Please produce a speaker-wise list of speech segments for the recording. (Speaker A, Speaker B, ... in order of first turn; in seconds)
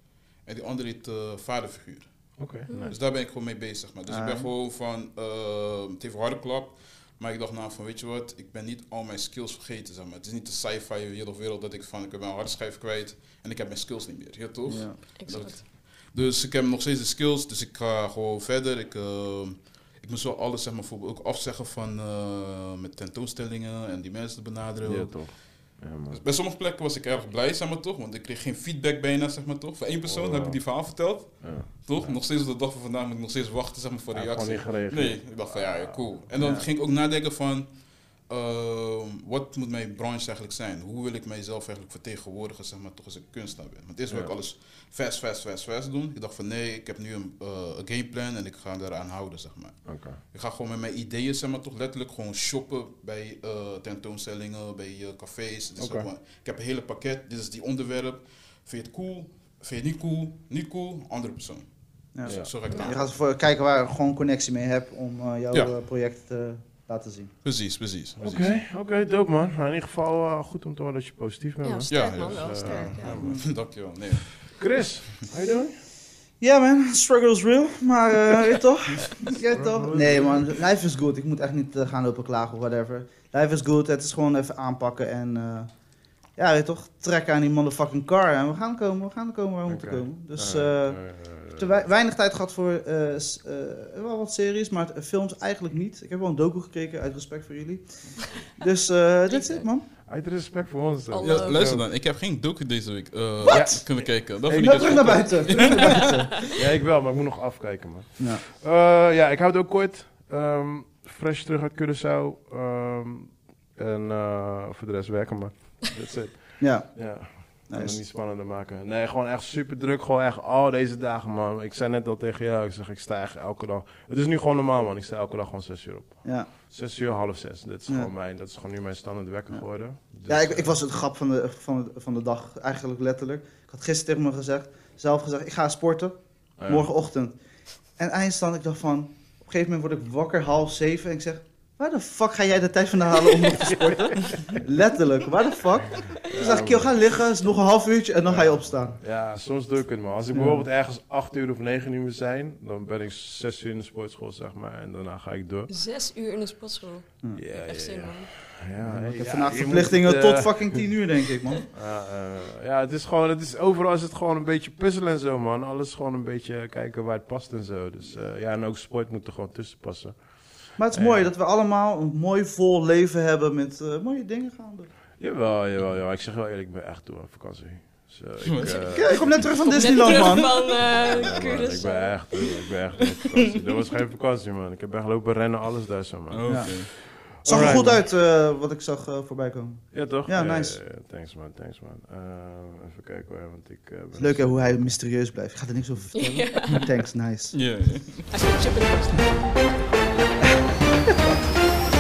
Speaker A: 0.4-25.4, 26.1-37.8, 38.3-61.7, 62.2-63.1, 67.4-68.6, 71.9-74.5, 101.2-106.2, 178.4-178.8, 186.3-186.9, 197.5-198.3
Speaker B: 2.4-3.0, 24.8-26.2, 30.0-30.8, 31.4-32.2, 34.1-36.1, 49.9-50.2, 55.8-56.1, 62.2-62.5, 68.2-73.4, 74.3-75.8, 79.5-80.4, 89.7-91.7, 100.0-101.8, 103.5-103.8, 106.5-130.7, 136.6-136.9, 146.3-146.9, 148.3-155.7, 157.3-160.8, 161.7-170.2, 170.9-171.3, 175.2-179.8, 180.3-188.0, 189.9-194.9
Speaker C: 2.7-2.9, 15.2-15.6, 62.7-62.9, 71.6-73.2, 99.3-99.7, 101.1-101.6, 143.2-143.6, 155.7-158.3, 178.6-183.2, 196.1-196.9, 198.3-199.8
Speaker D: 4.1-4.5, 14.7-15.0, 36.4-36.6, 62.1-67.3, 73.2-73.4, 76.4-85.7, 86.3-99.9, 103.5-106.4, 116.6-117.1, 117.7-118.0, 130.3-137.3, 138.0-149.0, 150.3-150.7, 158.8-161.6, 170.8-174.9, 178.8-180.7, 186.5-186.8, 187.4-190.8, 194.2-197.6